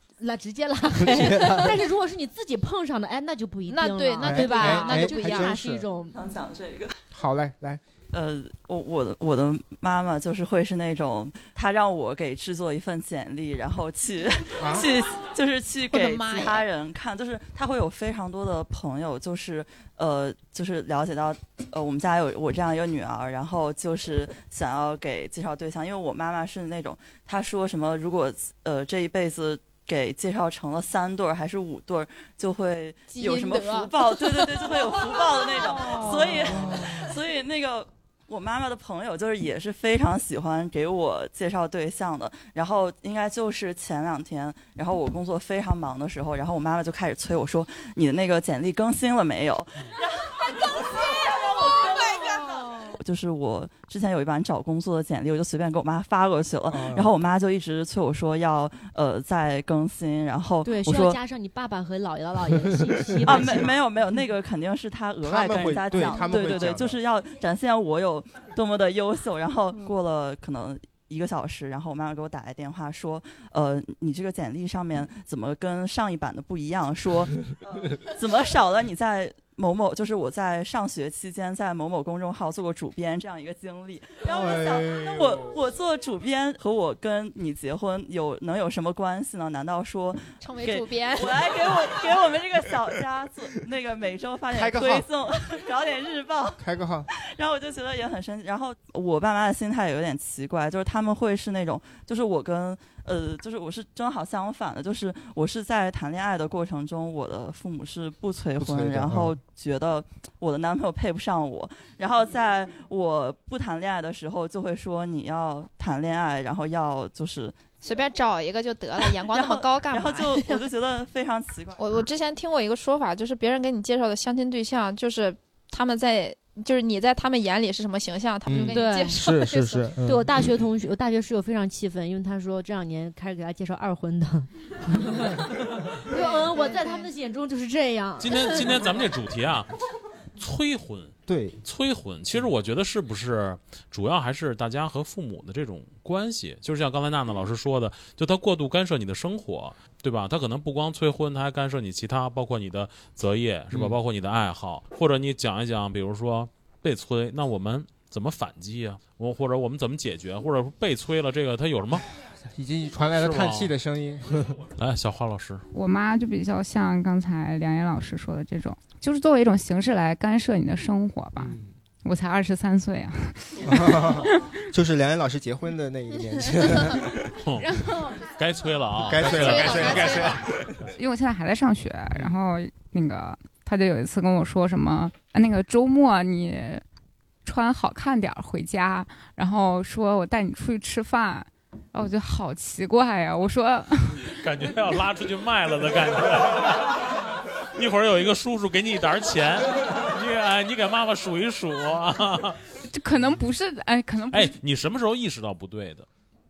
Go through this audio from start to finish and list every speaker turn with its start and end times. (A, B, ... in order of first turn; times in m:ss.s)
0:00.2-0:06.2 A
0:01.0-0:01.8 B
0:03.7-0:05.6 C
0:04.2-0:05.8 B
0:06.1-0:06.9 D
0:07.1-0:07.8 B
0:08.1-1:01.2 D
0:14.6-0:14.9 B
0:15.9-0:16.6 C
0:33.1-0:36.7 C
0:36.4-0:37.0 B
0:51.6-0:52.8 C
0:56.7-0:57.1 B
1:00.6-1:03.7 A
1:03.2-1:03.7 B
1:03.2-1:57.6 D
1:05.2-1:07.0 B
1:24.3-1:25.6 B
1:30.4-1:31.4 C
1:34.5-1:35.1 B
1:36.6-1:37.1 B
1:48.6-1:49.3 B
1:57.8-2:00.6 C
1:59.0-2:02.0 D
2:01.8-2:09.9 C
2:08.4-2:10.4 B
2:08.6-2:09.2 A
2:10.1-2:15.5 A
2:16.0-2:18.6 A
2:16.1-2:17.1 C
2:18.2-2:19.7 E
2:20.4-2:42.1 E
2:21.3-2:21.6 B
2:42.5-2:44.6 B
2:43.2-2:43.7 E
2:44.8-2:45.6 E
2:45.7-2:54.4 F
2:51.4-2:51.7 B
2:53.6-2:57.3 B
2:57.4-3:00.4 E
2:57.8-2:58.2 C
2:59.0-3:00.7 B
2:59.2-3:00.4 C
3:00.9-3:06.8 F
3:07.4-3:14.4 F
3:14.3-3:17.1 E
3:17.8-3:22.6 E
3:22.9-3:24.6 F
3:24.3-3:26.1 E